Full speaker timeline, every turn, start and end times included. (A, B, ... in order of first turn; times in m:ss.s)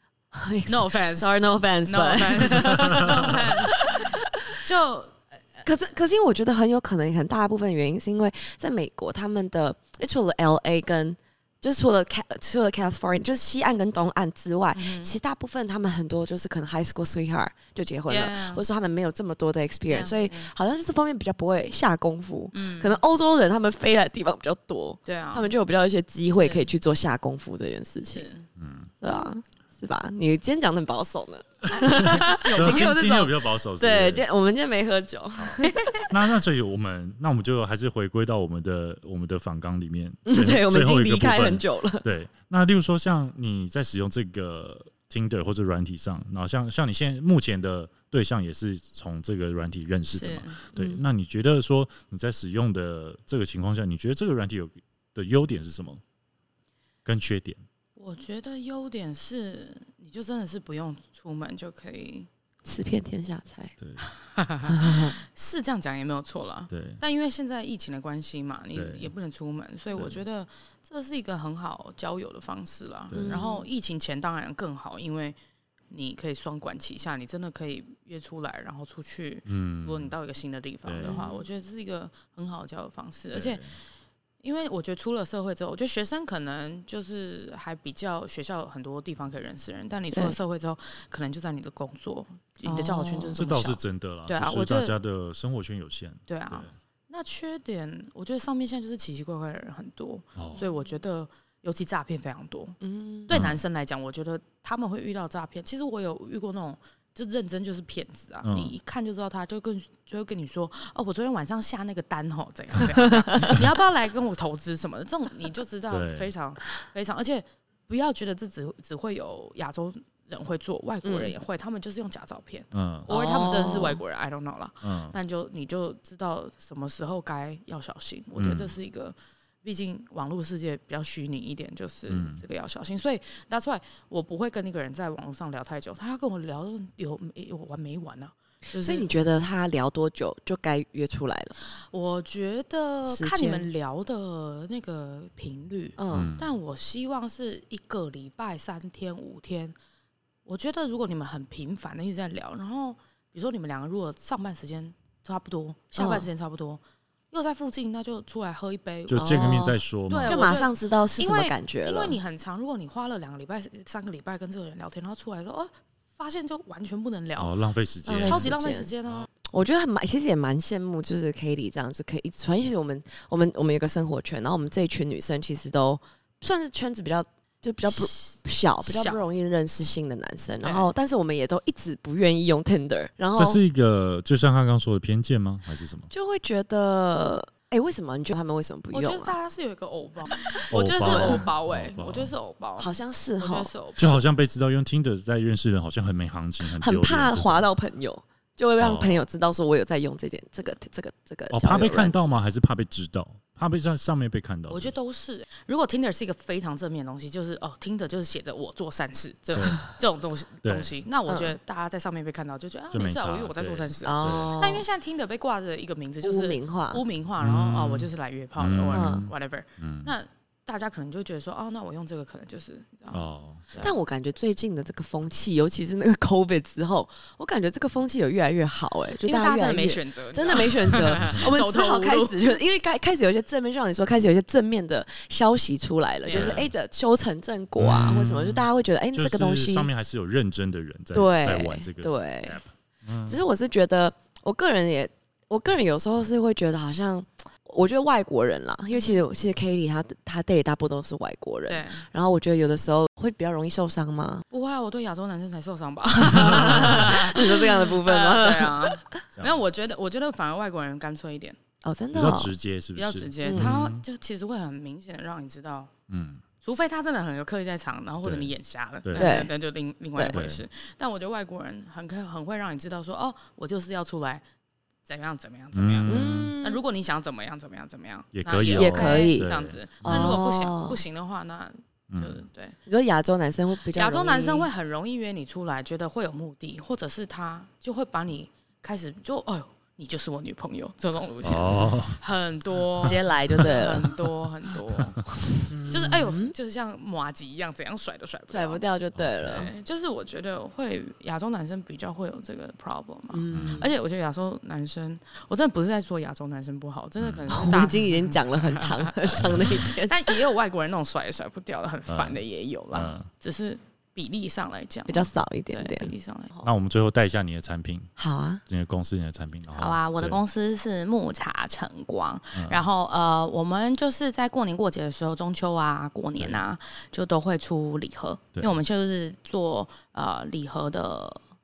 0:00.3-0:04.6 A
0:00.7-0:05.7 B
0:02.9-0:03.2 C
0:05.6-0:28.3 A
0:14.7-0:15.1 B
0:18.1-0:18.6 B
0:19.9-0:20.5 B
0:22.5-0:23.0 B
0:25.1-0:25.5 B
0:26.3-0:26.7 B
0:28.1-0:28.4 B
0:28.6-0:28.9 C
0:29.0-0:36.0 A
0:31.7-0:32.9 B
0:32.0-0:34.2 C
0:35.4-0:56.0 C
0:35.6-0:36.1 B
0:40.2-0:42.1 A
0:50.1-0:50.6 B
0:50.7-0:51.0 A
0:57.0-0:57.6 C
0:58.0-1:02.3 B
1:02.7-1:03.7 A
1:03.8-1:04.1 C
1:04.1-1:15.4 B
1:04.7-1:05.2 A
1:06.7-1:07.0 C
1:08.7-1:09.1 C
1:13.1-1:13.4 C
1:13.1-1:13.7 A
1:15.9-1:23.7 B
1:19.5-1:20.1 C
1:20.8-1:21.2 C
1:21.0-1:21.4 A
1:23.3-1:23.7 C
1:24.4-1:35.0 B
1:30.1-1:30.4 A
1:32.6-1:33.5 A
1:33.3-1:36.7 C
1:36.3-2:19.1 B
1:40.4-1:40.6 C
1:42.8-1:43.4 A
1:43.3-1:43.6 C
1:48.4-1:48.8 C
1:53.0-1:53.6 A
1:55.9-1:56.3 C
2:01.0-2:01.3 A
2:02.7-2:03.1 C
2:03.1-2:04.0 A
2:04.8-2:05.2 C
2:08.4-2:08.8 C
2:12.1-2:12.4 C
2:18.8-2:21.6 A
2:21.9-2:29.8 B
2:23.1-2:23.7 A
2:26.0-2:26.3 A
2:26.1-2:26.5 C
2:30.4-2:36.8 B
2:36.0-2:36.3 A
2:37.3-2:47.6 B
2:39.1-2:40.5 C
2:39.1-2:42.2 A
2:47.4-2:48.6 C
2:48.0-2:48.9 A
2:48.2-2:49.3 B
2:49.5-3:03.6 A
2:57.9-2:59.2 B
3:00.6-3:00.9 B
3:03.4-3:06.1 C
3:06.1-3:09.4 A
3:08.9-3:14.2 B
3:10.5-3:11.4 A
3:10.7-3:12.3 C
3:12.8-3:13.7 A
3:14.0-3:17.7 C
3:16.7-3:22.3 A
3:18.8-3:19.2 C
3:21.5-3:24.9 C
3:24.7-3:44.0 B
3:29.5-3:29.8 C
3:30.6-3:30.9 C
3:31.3-3:31.6 A
3:32.9-3:34.6 C
3:34.0-3:34.8 A
3:36.2-3:37.0 A
3:37.4-3:40.1 C
3:38.9-3:39.3 A
3:43.1-3:43.6 C
3:43.8-3:59.9 A
3:49.2-3:52.5 B
3:56.2-3:56.6 B
3:56.3-3:56.7 C
3:57.8-4:03.4 C
4:01.1-4:02.6 A
4:03.3-4:14.4 A
4:08.9-4:09.2 B
4:11.7-4:12.1 B
4:14.5-4:21.6 B
4:16.2-4:19.2 A
4:16.4-4:16.9 C
4:19.4-4:19.6 C
4:21.8-4:22.5 A
4:22.1-4:24.0 C
4:23.0-4:25.9 B
4:23.4-4:23.7 A
4:26.1-4:26.4 C
4:26.6-4:34.4 B
4:28.2-4:28.5 C
4:29.0-4:29.4 C
4:29.1-4:29.5 A
4:30.3-4:30.6 C
4:35.1-4:42.8 B
4:35.7-4:36.6 C
4:36.1-4:36.8 A
4:38.3-4:40.4 C
4:38.8-4:39.5 A
4:40.1-4:41.0 A
4:42.1-4:42.4 C
4:42.9-4:44.7 A
4:44.0-4:55.3 B
4:51.4-4:52.2 C
4:53.0-4:54.2 A
4:55.5-4:56.5 A
4:55.9-4:58.8 B
4:58.5-4:59.7 A
4:59.1-4:59.7 C
4:59.4-5:09.4 B
5:03.3-5:03.9 A
5:03.5-5:03.9 C
5:07.2-5:07.6 C
5:07.5-5:10.4 A
5:09.4-5:09.8 C
5:10.1-5:16.5 B
5:12.1-5:12.4 C
5:12.9-5:13.3 C
5:15.1-5:16.7 A
5:16.6-5:18.1 C
5:18.2-5:18.6 A
5:18.7-5:20.4 C
5:19.8-5:31.4 B
5:22.6-5:22.9 C